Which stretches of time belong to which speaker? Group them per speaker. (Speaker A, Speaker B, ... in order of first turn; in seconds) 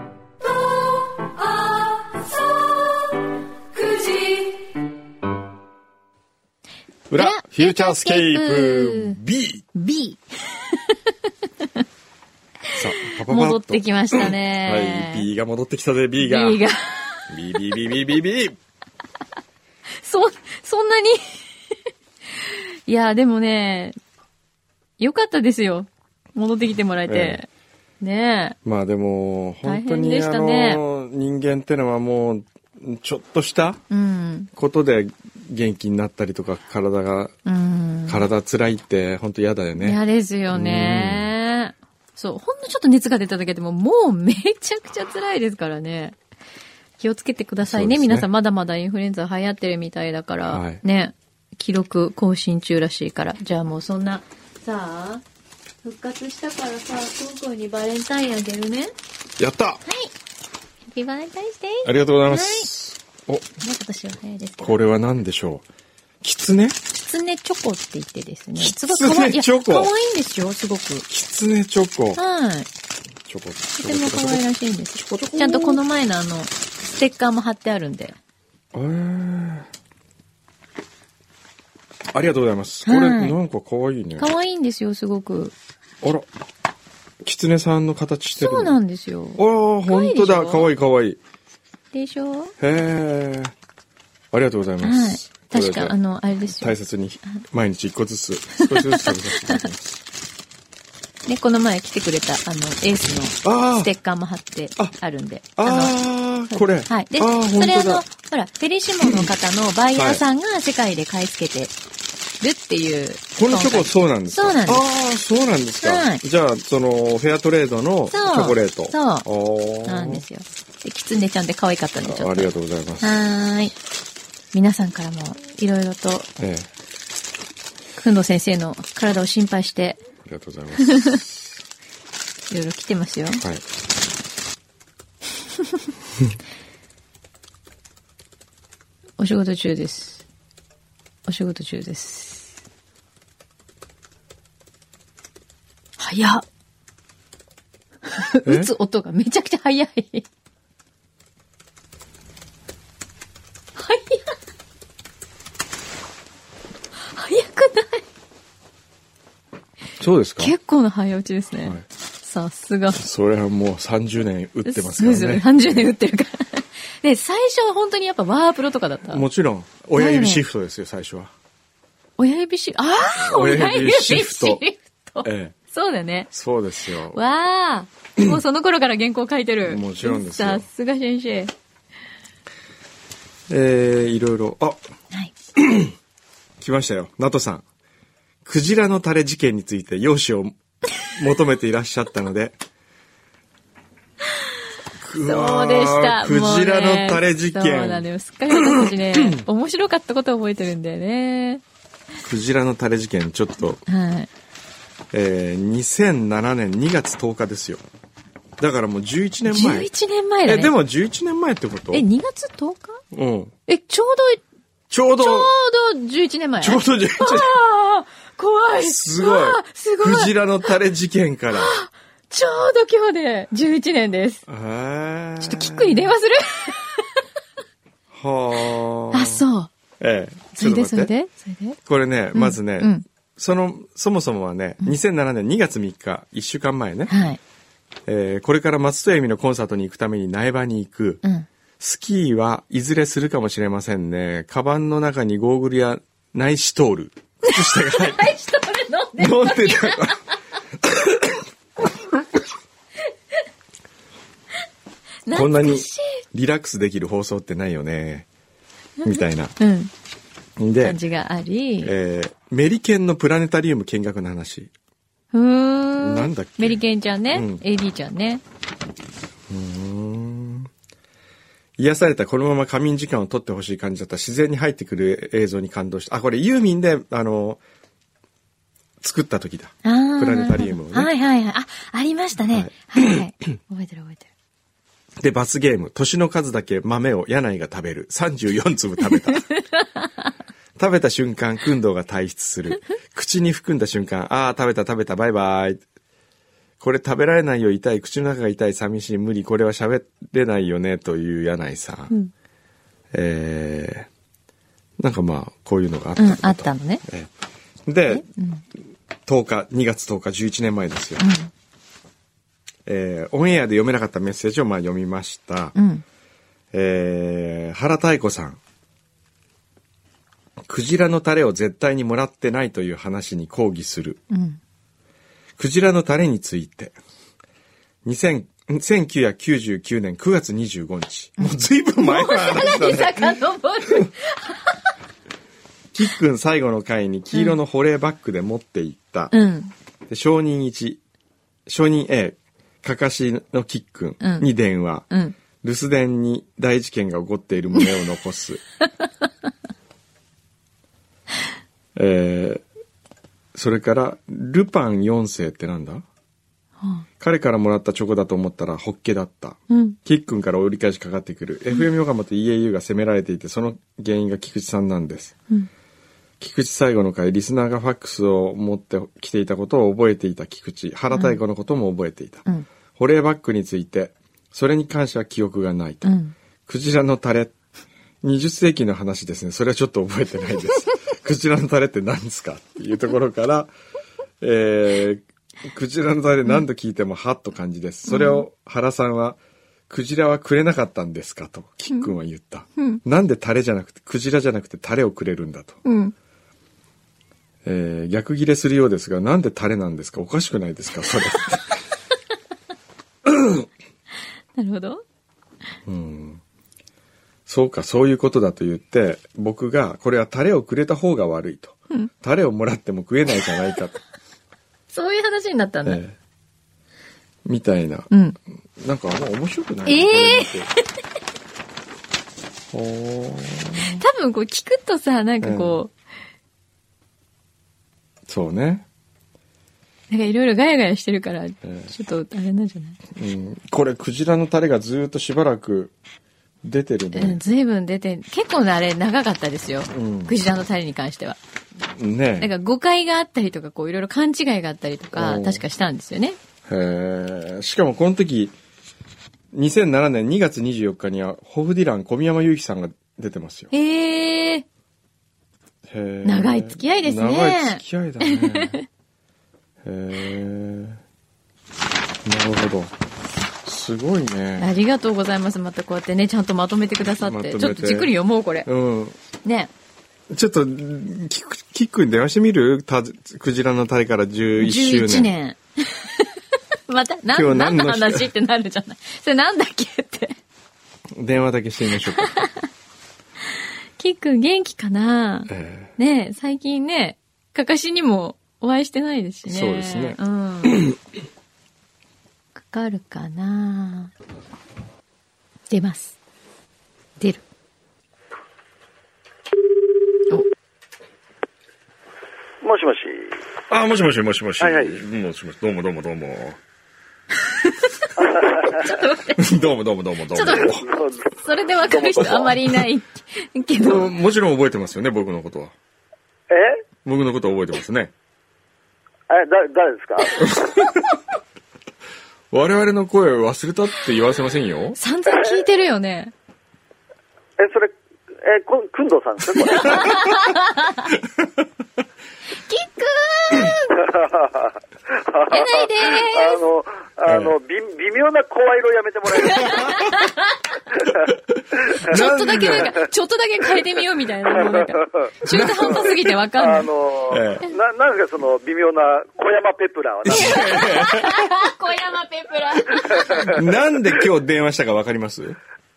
Speaker A: 0.4-3.1, 3.7-4.8, 7.1-9.2, 9.7-11.8, 13.0-15.3, 16.2-17.3, 19.9-21.4, 22.4-23.9, 25.0-27.5, 28.0-28.6, 29.6-30.8, 33.9-34.5, 37.5-38.2, 39.8-46.2, 47.0-55.2, 55.8-58.9, 59.9-60.1, 60.9-62.7, 63.6-64.8, 67.0-71.1, 72.2-72.7, 73.8-78.2, 82.8-83.3, 84.2-85.5, 88.3-90.7, 91.9-92.5, 94.8-96.7, 98.6-99.7, 101.2-106.0, 106.5-111.7, 112.4-114.8, 115.8-116.2, 118.1-119.3, 119.8-123.7, 124.5-126.3, 128.0-130.0, 130.8-131.2, 132.5-133.4, 139.2-140.2, 141.3-142.5, 146.0-146.4, 148.1-150.2, 153.8-154.4, 157.1-158.0, 160.4-163.0, 164.6-169.2, 169.9-170.4, 172.2-176.3, 177.1-181.5, 195.2-201.6, 203.8-204.3, 209.5-210.7, 211.9-213.0, 213.7-214.4, 215.2-220.3, 221.5-224.4, 225.4-227.2, 229.1-229.7, 230.6-231.8, 232.3-233.0, 237.1-237.4, 247.5-250.3, 255.2-256.2, 259.0-259.9, 260.8-261.9, 265.3-268.4, 279.8-284.3, 289.3-289.6, 306.2-307.0, 308.1-308.6, 311.2-311.5, 315.7-316.0, 324.3-324.6, 331.4-334.8, 337.3-337.6, 339.3-339.7, 344.2-344.5, 345.1-345.4, 359.7-360.0, 371.1-371.4, 376.0-376.3, 388.1-388.4, 392.8-393.0, 395.8-396.1, 404.6-405.0, 414.9-416.0, 418.1-418.4, 419.9-420.6, 423.8-425.9, 430.1-433.0, 437.1-441.4, 442.4-446.4, 453.7-454.6, 456.2-458.8, 464.6-468.7, 469.4-469.7, 474.6-476.4, 476.9-480.4, 482.1-482.7, 484.0-490.9, 492.6-494.1, 495.7-496.1, 507.5-509.5, 510.3-510.8, 511.4-514.1, 525.0-526.3, 529.7-531.1, 532.6-534.1, 535.5-536.6, 539.4-540.6, 542.0-546.9, 550.3-553.6
Speaker B: 7.1-9.7, 12.7-16.6, 17.3-18.6, 27.1-27.4, 28.6-33.8, 34.5-37.3, 38.1-40.0, 40.5-41.3, 47.6-48.3, 50.5-50.8, 59.4-59.8, 61.8-63.4, 64.6-65.6, 66.2-66.8, 68.6-69.9, 71.1-72.2, 73.2-74.4, 74.9-75.8, 78.7-79.7, 82.1-84.3, 86.0-86.3, 87.2-88.8, 89.3-91.2, 92.6-93.5, 94.3-100.0, 103.4-103.9, 105.6-108.0, 110.0-110.2, 113.3-120.2, 122.0-123.2, 126.4-126.7, 130.2-131.6, 148.4-148.7, 160.0-160.5, 162.9-165.8, 169.1-171.3, 173.2-174.6, 175.2-175.5, 176.3-177.2, 179.7-180.7, 183.5-184.8, 185.6-185.9, 186.6-187.6, 188.4-192.6, 195.0-199.4, 202.2-203.8, 205.1-207.8, 208.6-209.9, 210.4-212.0, 213.1-213.5, 214.9-215.5, 216.6-217.6, 218.8-221.7, 224.5-226.1, 228.1-229.4, 230.0-231.1, 231.8-237.2, 238.1-241.2, 241.8-248.3, 249.2-250.2, 250.8-251.4, 255.3-258.3, 259.0-259.6, 260.6-261.0, 261.8-264.7, 266.0-266.8, 267.3-267.6, 269.5-270.7, 271.8-277.6, 279.0-281.1, 282.5-283.2, 285.2-289.4, 290.8-295.8, 296.8-302.1, 303.1-304.1, 305.0-307.3, 307.9-308.2, 309.3-311.3, 312.9-315.7, 316.7-318.6, 320.6-324.2, 325.6-327.0, 328.0-334.1, 335.9-339.3, 340.1-341.0, 341.7-345.1, 345.6-348.6, 351.9-352.6, 353.5-356.0, 357.2-365.4, 366.4-376.1, 376.6-377.5, 378.2-383.7, 384.4-389.4, 389.9-395.8, 397.6-401.8, 403.2-403.6, 405.9-406.4, 407.5-414.0, 415.9-416.1, 417.4-418.1, 418.8-420.7, 422.7-424.0, 425.4-425.8, 428.3-428.9, 431.6-431.9, 433.1-435.9, 436.6-437.4, 439.9-440.3, 441.9-442.5, 445.1-445.6, 446.7-448.5, 449.5-453.7, 455.9-458.8, 459.8-461.0, 462.2-462.9, 463.6-464.7, 467.2-468.1, 468.6-469.2, 470.3-475.3, 477.3-478.3, 481.1-482.3, 485.5-485.9, 489.5-490.9, 503.7-506.6, 509.4-510.8, 513.8-515.7, 517.0-518.1, 520.4-521.1, 522.5-525.0, 537.3-537.5, 541.5-542.9, 545.5-546.1, 547.3-547.6, 550.2-551.5, 553.4-555.6
Speaker C: 502.6-503.4, 504.6-505.0, 508.2-508.9, 510.7-512.6, 516.5-516.8, 519.3-520.4, 525.3-525.6, 527.6-530.2, 533.9-540.0, 541.0-541.3, 544.5-545.3, 546.6-550.8, 553.1-553.5